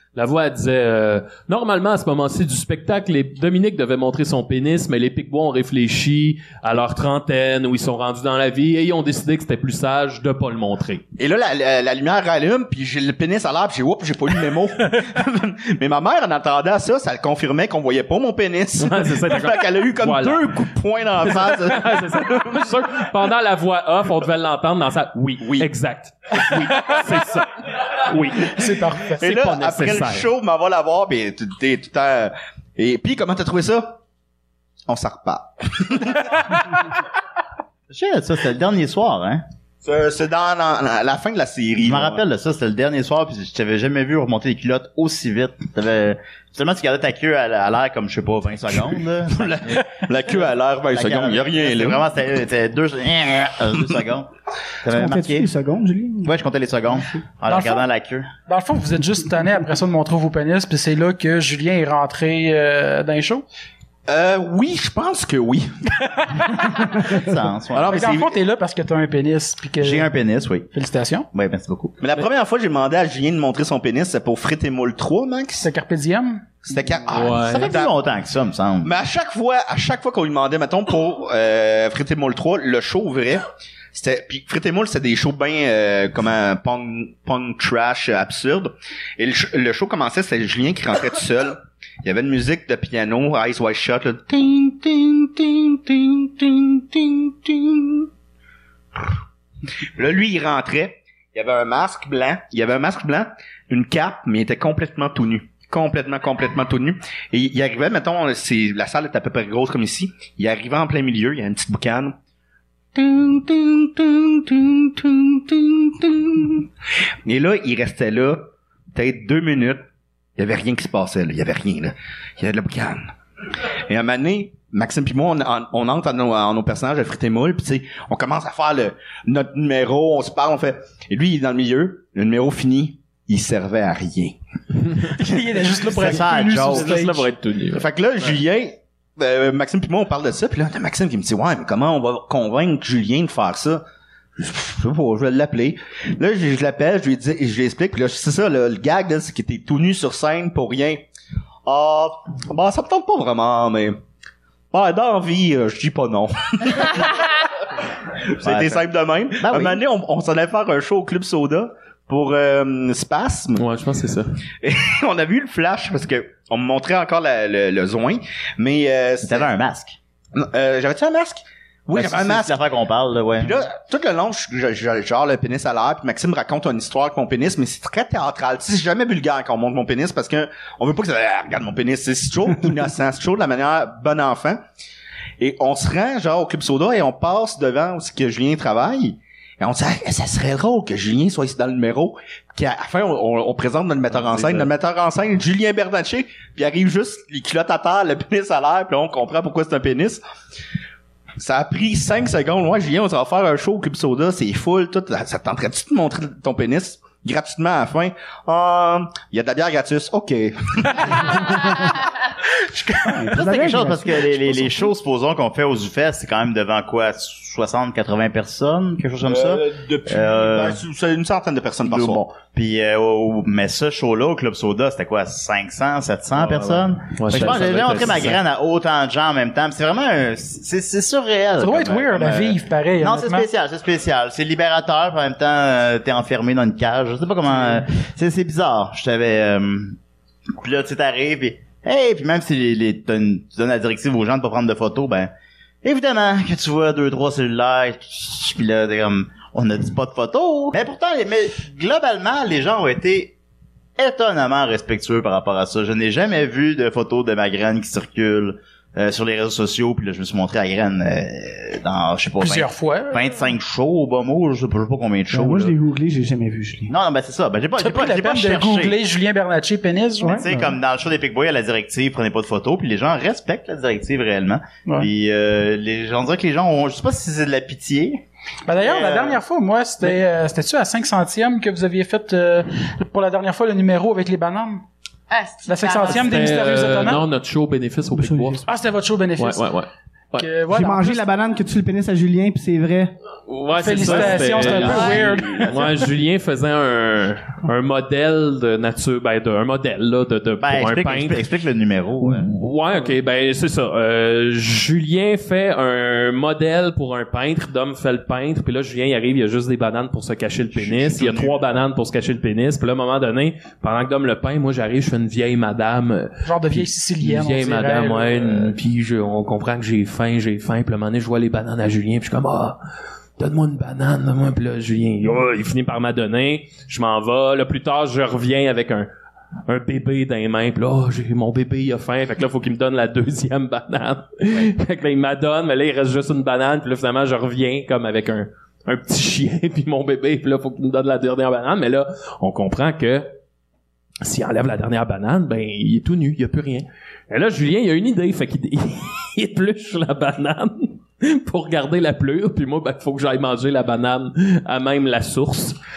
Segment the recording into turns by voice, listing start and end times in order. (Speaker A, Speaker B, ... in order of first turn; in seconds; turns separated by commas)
Speaker A: 0.1-11.0, Speaker B: 11.2-22.7, Speaker A: 18.8-20.6, Speaker A: 21.2-28.6, Speaker B: 25.4-25.7, Speaker C: 28.4-29.2, Speaker A: 29.2-30.3, Speaker B: 29.2-34.0, Speaker B: 34.9-36.5, Speaker D: 37.9-39.4, Speaker B: 39.8-42.2, Speaker D: 41.8-50.0, Speaker B: 49.3-52.0, Speaker D: 50.9-54.3, Speaker D: 54.8-55.5, Speaker E: 54.9-56.3, Speaker D: 56.2-58.3, Speaker C: 57.5-57.8, Speaker C: 58.5-63.4, Speaker B: 64.1-65.7, Speaker D: 66.6-68.0, Speaker B: 67.7-68.4, Speaker C: 67.9-70.1, Speaker D: 69.8-70.7, Speaker C: 70.7-71.3, Speaker D: 71.3-72.0, Speaker B: 72.0-75.7, Speaker C: 75.6-76.6, Speaker B: 76.6-78.0, Speaker A: 77.1-77.7, Speaker D: 77.4-78.9, Speaker B: 78.8-98.1, Speaker B: 100.0-112.1, Speaker B: 112.9-116.7, Speaker B: 117.2-119.8, Speaker B: 120.4-123.1, Speaker B: 123.9-134.4, Speaker C: 135.2-137.3, Speaker D: 135.9-136.9, Speaker A: 136.1-137.9, Speaker B: 137.7-143.8, Speaker B: 144.4-151.1, Speaker B: 151.7-154.0, Speaker B: 154.7-157.4, Speaker B: 158.2-163.6, Speaker D: 158.4-158.8, Speaker D: 159.4-159.8, Speaker A: 163.6-164.4, Speaker B: 164.6-169.5, Speaker D: 169.2-170.0, Speaker B: 170.3-172.6, Speaker D: 171.9-173.7, Speaker B: 173.4-184.6, Speaker B: 185.4-200.2, Speaker A: 194.1-194.7, Speaker B: 201.4-211.9, Speaker E: 213.0-214.7, Speaker D: 213.3-220.8, Speaker B: 219.2-222.3, Speaker D: 221.8-240.0, Speaker B: 226.4-226.7, Speaker A: 227.2-228.4, Speaker C: 231.6-233.5, Speaker D: 240.6-245.3, Speaker D: 245.8-253.3, Speaker D: 254.0-265.8, Speaker C: 262.4-263.2, Speaker E: 265.3-266.9, Speaker D: 266.9-268.9, Speaker C: 267.8-270.4, Speaker E: 270.2-270.7, Speaker D: 270.4-279.4, Speaker C: 278.6-284.8, Speaker F: 285.3-287.0, Speaker C: 285.6-287.2, Speaker A: 286.1-288.6, Speaker E: 288.1-288.7, Speaker C: 288.6-289.7, Speaker A: 289.4-290.5, Speaker C: 290.4-291.2, Speaker E: 290.7-293.1, Speaker A: 293.5-301.4, Speaker C: 293.8-295.8, Speaker F: 294.7-295.2, Speaker D: 300.6-302.5, Speaker A: 302.2-322.8, Speaker B: 310.7-311.6, Speaker C: 316.4-318.7, Speaker A: 323.4-329.1, Speaker A: 329.7-343.3, Speaker A: 344.2-355.8